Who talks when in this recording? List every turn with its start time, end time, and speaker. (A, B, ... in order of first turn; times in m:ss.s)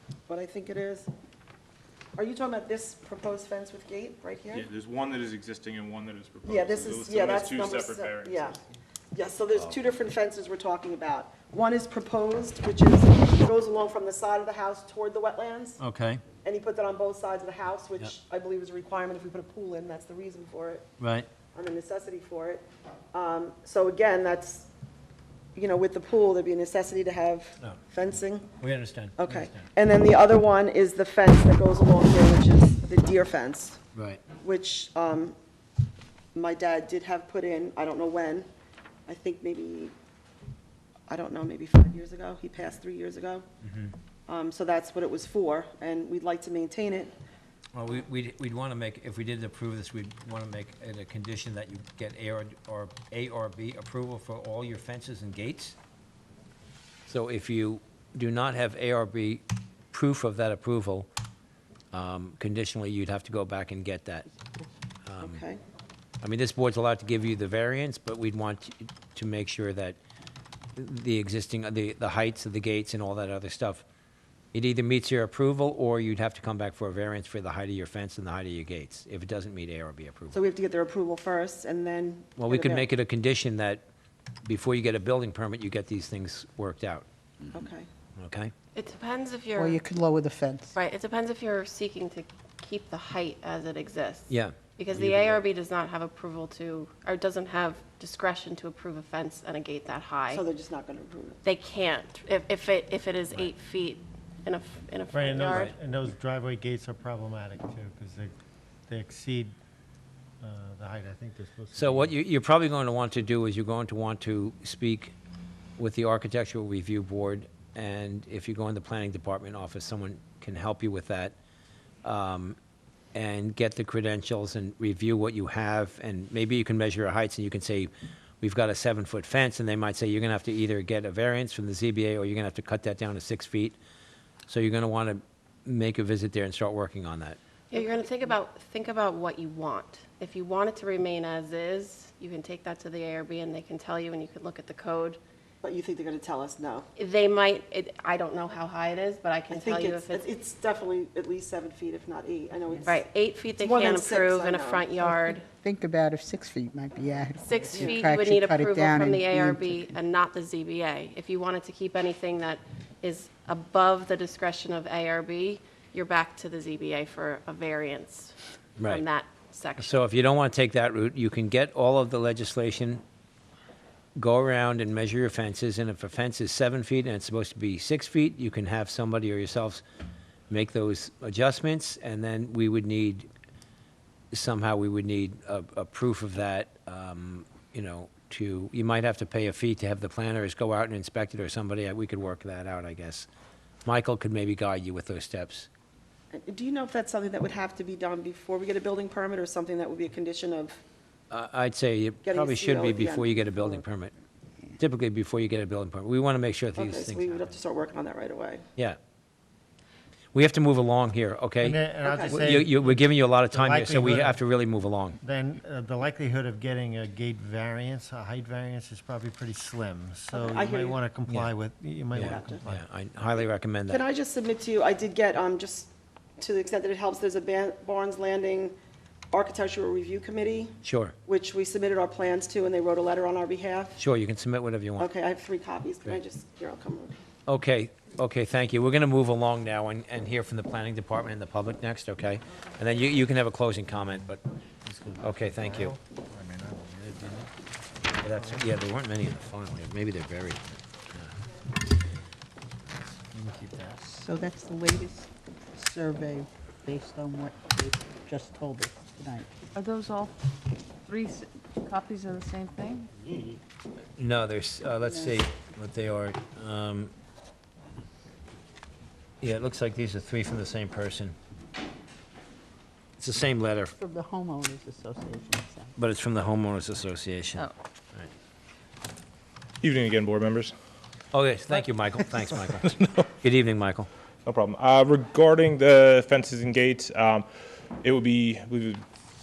0:00.3-0:01.1 A
0:02.2-0:04.7 A
0:04.5-0:08.6 B
0:06.4-0:08.6 A
0:09.1-0:15.8 A
0:15.8-0:16.2 C
0:16.4-0:20.8 A
0:21.0-0:21.3 C
0:21.5-0:24.7 A
0:25.5-0:28.5 A
0:28.6-0:29.7 C
0:29.2-0:33.8 A
0:33.9-0:34.2 C
0:34.4-0:35.4 A
0:36.3-0:38.5 A
0:39.1-0:39.9 A
0:41.1-0:43.4 A
0:43.6-0:43.9 C
0:44.3-0:47.1 A
0:47.7-0:55.8 C
0:57.1-1:01.1 C
1:01.9-1:04.3 C
1:05.0-1:05.4 C
1:05.2-1:05.6 A
1:06.2-1:10.0 C
1:10.8-1:13.8 C
1:14.5-1:20.4 C
1:20.3-1:22.9 A
1:22.4-1:23.8 C
1:24.4-1:27.0 C
1:27.5-1:27.9 A
1:28.2-1:28.5 C
1:28.7-1:29.8 D
1:29.5-1:30.7 E
1:30.7-1:40.4 D
1:34.3-1:35.2 C
1:40.3-1:41.4 A
1:41.4-1:45.7 D
1:45.1-1:48.4 F
1:45.4-1:45.7 C
1:48.9-1:49.5 F
1:50.4-1:52.1 F
1:51.7-1:55.1 C
1:55.8-2:01.3 C
2:02.0-2:02.6 C
2:03.1-2:13.8 C
2:14.5-2:17.4 C
2:17.7-2:25.2 D
2:17.8-2:18.3 A
2:25.6-2:26.9 A
2:27.0-2:30.3 D
2:29.5-2:33.0 A
2:32.8-2:35.5 D
2:33.6-2:34.9 A
2:35.0-2:39.9 E
2:37.4-2:50.0 D
2:37.7-2:38.0 A
2:48.8-2:49.0 C
2:49.8-2:53.0 C
2:54.2-2:59.8 C
3:00.5-3:03.3 C
3:04.3-3:13.3 C
3:13.8-3:15.7 C
3:16.3-3:20.8 A
3:21.3-3:24.1 C
3:22.2-3:23.8 A
3:24.8-3:27.5 C
3:26.8-3:28.6 A
3:30.3-3:35.2 C
3:31.6-3:34.4 F
3:32.0-3:32.5 A
3:35.2-3:42.8 F
3:40.3-3:41.0 A
3:42.1-3:44.0 C
3:42.2-3:42.6 A
3:43.9-3:48.7 A
3:49.3-3:54.0 A
3:50.8-3:51.1 C
3:54.0-3:55.1 C
3:55.0-3:57.1 A
3:57.5-4:04.4 C
4:04.8-4:07.5 F
4:05.2-4:06.0 C
4:08.2-4:11.3 C
4:08.2-4:08.8 F
4:13.3-4:14.1 F
4:14.1-4:19.5 E
4:19.7-4:20.4 G
4:21.0-4:23.1 G
4:24.2-4:27.1 C
4:25.0-4:25.3 E
4:29.4-4:31.4 C
4:33.2-4:33.9 C
4:34.0-4:35.9 E
4:36.0-4:38.3 C
4:39.8-4:40.7 B
4:41.3-4:44.1 C
4:42.4-4:43.2 B
4:44.4-4:47.4 B
4:48.0-4:49.0 B